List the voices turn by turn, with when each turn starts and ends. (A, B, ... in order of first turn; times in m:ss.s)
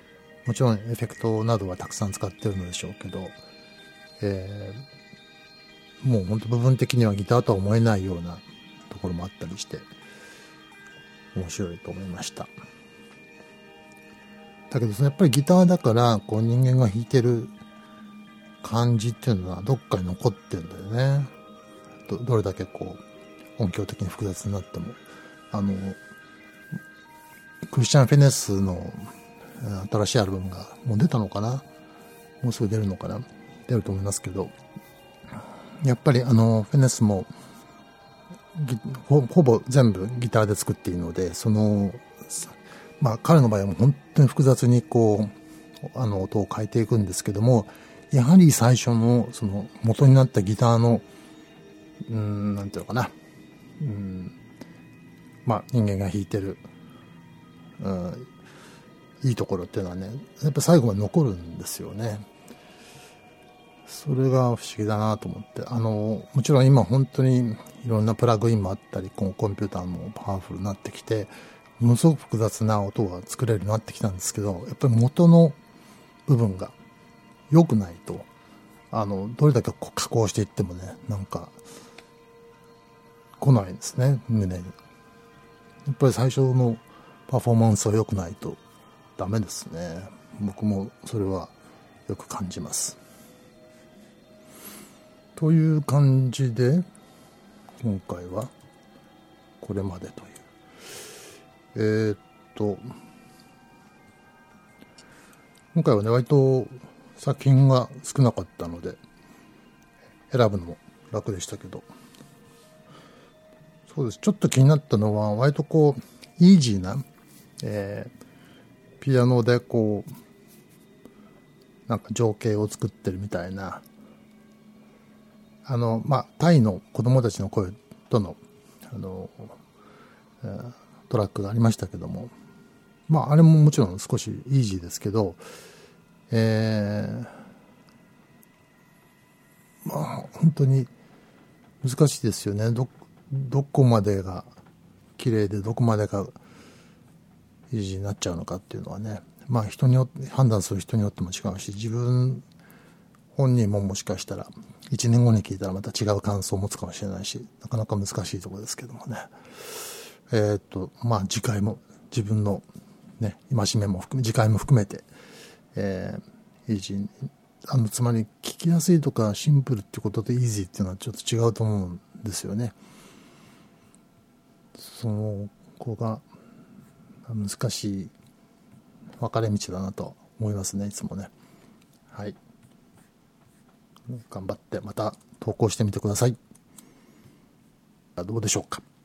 0:00.4-0:03.4 A
0:04.2-0:04.8 A
0:06.0-0:09.9 A
0:11.3-0:12.5 A
0:14.7-0:17.5 A
0:18.6-0:21.3 A
0:22.1-0:23.0 A
0:23.6-0:25.0 A
0:25.5-0:26.0 A
0:27.7-0:31.6 A
0:32.4-0:34.5 A
0:35.8-0:37.3 A
0:38.5-0:51.1 A
0:52.1-0:53.1 A
0:53.8-0:54.4 A
0:55.4-0:56.6 A
0:57.8-0:58.3 A
0:59.2-1:02.3 A
1:03.9-1:15.6 A
1:16.3-1:16.8 A
1:17.5-1:18.3 A
1:18.9-1:21.6 A
1:23.4-1:24.8 A
1:25.9-1:28.6 A
1:29.2-1:31.5 A
1:32.1-1:33.0 A
1:35.4-1:36.9 A
1:37.8-1:38.5 A
1:39.6-1:40.4 A
1:41.7-1:42.9 A
1:45.7-1:49.0 A
1:50.3-1:51.9 A
1:53.9-1:57.0 A
1:57.6-1:58.1 A
1:59.0-2:00.1 A
2:01.9-2:03.8 A
2:05.6-2:09.6 A
2:10.4-2:12.3 A
2:13.1-2:15.4 A
2:16.3-2:17.4 A
2:19.8-2:20.9 A
2:21.8-2:24.5 A
2:25.2-2:26.3 A
2:27.7-2:32.4 A
2:33.3-2:42.6 A
2:43.2-2:45.1 A
2:45.8-2:52.8 A
2:54.8-2:56.2 A
2:57.3-2:58.1 A
2:59.2-3:01.3 A
3:02.1-3:02.4 A
3:04.1-3:06.4 A
3:08.2-3:08.8 A